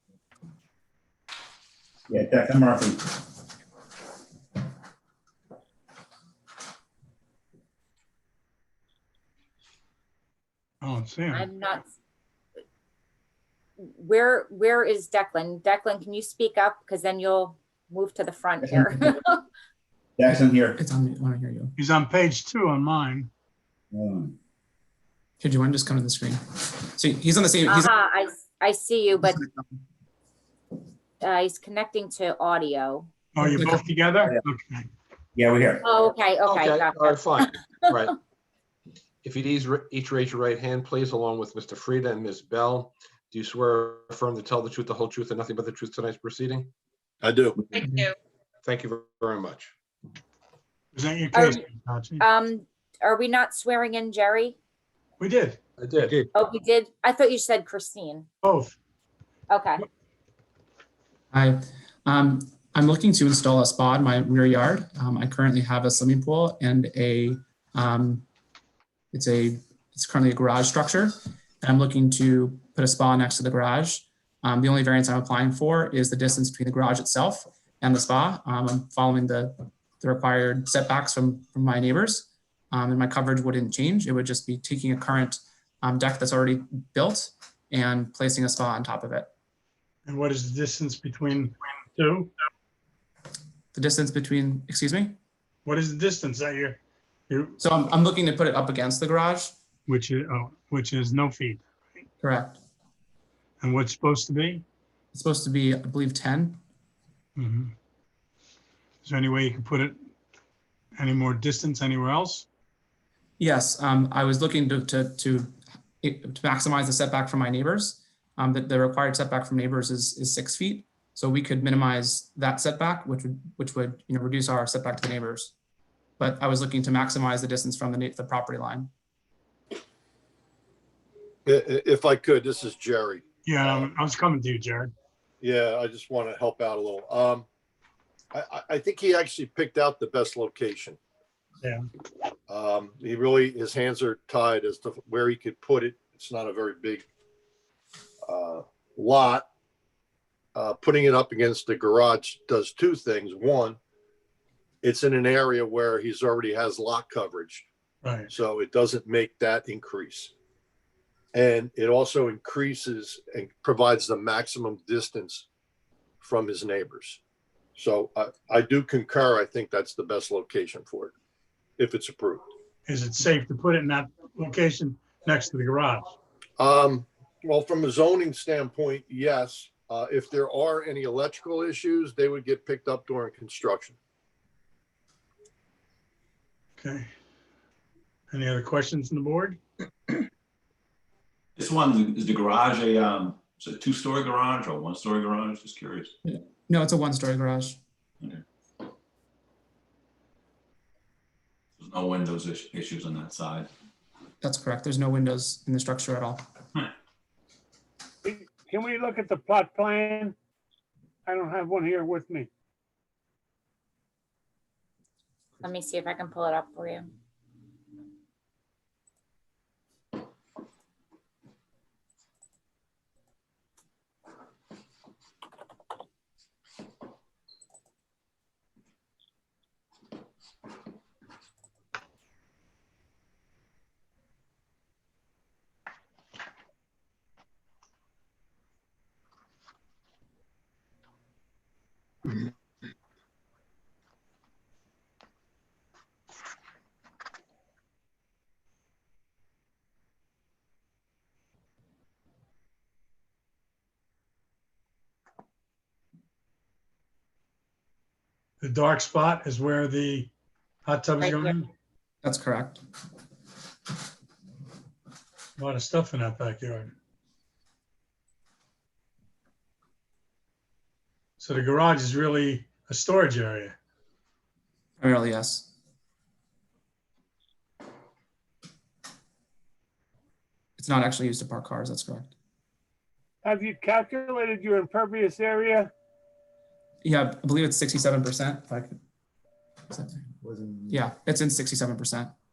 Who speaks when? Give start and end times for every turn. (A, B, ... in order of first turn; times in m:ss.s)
0:02.1-0:03.0 A
0:10.8-0:11.5 B
0:11.3-0:11.9 C
0:13.8-0:19.4 C
0:20.2-0:20.8 A
0:20.4-0:21.7 D
0:21.8-0:23.3 B
0:23.9-0:24.3 A
0:25.4-0:27.9 D
0:27.7-0:29.4 C
0:31.2-0:33.1 C
0:33.4-0:34.9 B
0:33.4-0:33.8 D
0:35.4-0:35.8 A
0:35.8-0:37.9 C
0:36.4-0:38.1 E
0:39.2-0:46.7 E
0:47.2-0:47.7 F
0:48.6-0:49.7 E
0:50.9-0:52.2 B
0:51.3-0:51.6 C
0:52.2-0:54.6 C
0:55.2-0:56.1 B
0:55.8-0:56.3 E
0:56.3-0:58.3 C
0:58.4-0:58.8 B
0:59.5-0:59.8 C
1:01.3-1:08.2 D
1:09.1-1:29.3 D
1:30.1-1:32.3 B
1:33.7-1:35.2 D
1:35.6-1:37.6 B
1:37.6-1:39.5 D
1:39.9-1:42.0 B
1:42.2-1:42.6 D
1:43.6-1:44.6 B
1:45.1-1:46.6 D
1:47.4-1:47.7 B
1:49.0-1:50.0 B
1:51.0-1:52.5 B
1:53.4-2:05.5 D
2:06.2-2:08.9 D
2:11.5-2:13.9 F
2:13.4-2:14.9 B
2:15.4-2:17.5 F
2:18.3-2:21.0 F
2:22.5-2:27.1 F
2:28.2-2:29.5 F
2:30.6-2:33.8 F
2:34.8-2:37.7 F
2:38.0-2:38.3 B
2:38.3-2:40.3 F
2:41.3-2:45.5 F
2:46.2-2:47.2 F
2:47.8-2:51.1 F
2:51.8-2:52.5 F
2:52.9-2:56.1 B
2:56.6-3:04.0 F
3:06.8-3:07.1 B
3:08.3-3:09.6 B
3:11.6-3:16.1 G
3:16.2-3:17.8 D
3:21.8-3:23.7 G
3:24.4-3:26.4 D
3:28.2-3:30.4 H
3:31.3-3:32.5 H
3:35.6-3:37.1 C
4:18.6-4:20.3 B
4:20.8-4:21.7 B
4:21.2-4:21.5 C
4:22.2-4:22.8 D
4:25.6-4:26.9 B
4:31.4-4:33.8 B
4:35.0-4:35.7 D
4:40.8-4:42.3 D
4:43.4-4:45.9 H
4:47.0-4:49.0 D
4:49.9-4:50.2 D
4:50.9-4:52.3 D